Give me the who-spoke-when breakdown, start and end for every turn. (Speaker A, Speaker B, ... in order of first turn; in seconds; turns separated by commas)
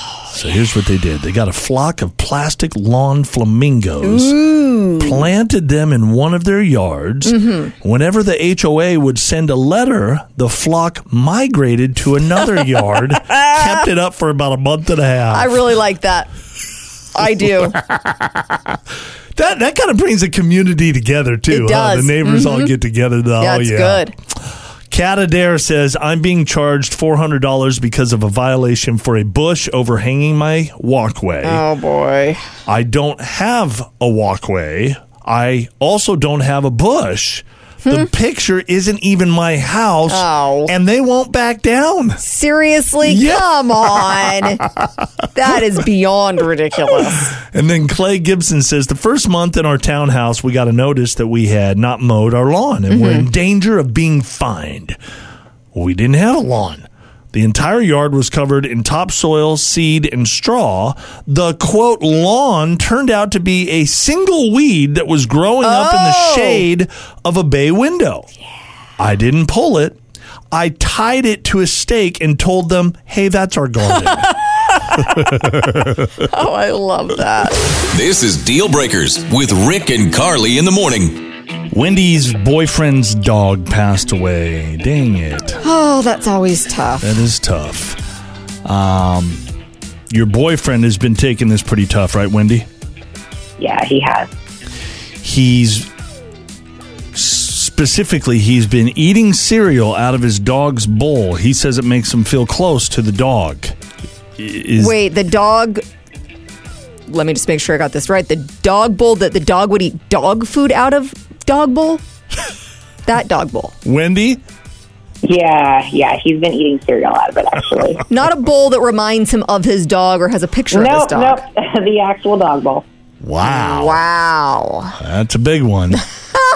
Speaker A: 0.3-4.4, Speaker B: 4.0-5.3, Speaker A: 5.0-15.5, Speaker B: 7.2-7.7, Speaker B: 13.4-13.8, Speaker B: 15.3-16.3, Speaker B: 17.1-17.8, Speaker A: 17.7-18.8, Speaker A: 19.3-24.1, Speaker B: 21.5-22.7, Speaker B: 23.4-24.1, Speaker A: 24.9-31.6, Speaker B: 31.4-32.4, Speaker A: 32.6-42.2, Speaker B: 37.8-38.1, Speaker B: 40.1-40.7, Speaker B: 42.2-44.6, Speaker A: 43.0-44.9, Speaker B: 45.3-47.3, Speaker A: 46.9-55.0, Speaker B: 52.9-53.3, Speaker A: 55.7-68.3, Speaker B: 65.6-66.7, Speaker A: 69.0-70.0, Speaker A: 70.5-74.3, Speaker A: 75.0-76.2, Speaker B: 76.2-77.7, Speaker C: 77.8-81.2, Speaker A: 81.7-85.6, Speaker B: 85.6-87.2, Speaker A: 87.0-88.0, Speaker A: 88.6-89.4, Speaker A: 90.1-92.7, Speaker D: 93.6-94.3, Speaker A: 95.2-95.9, Speaker A: 97.1-103.7, Speaker A: 104.4-105.0, Speaker B: 104.8-105.8, Speaker B: 107.1-112.0, Speaker B: 113.0-113.7, Speaker A: 113.8-114.4, Speaker D: 115.2-118.0, Speaker B: 118.1-121.4, Speaker D: 120.7-122.8, Speaker A: 123.2-124.0, Speaker B: 123.4-125.0, Speaker A: 125.0-126.0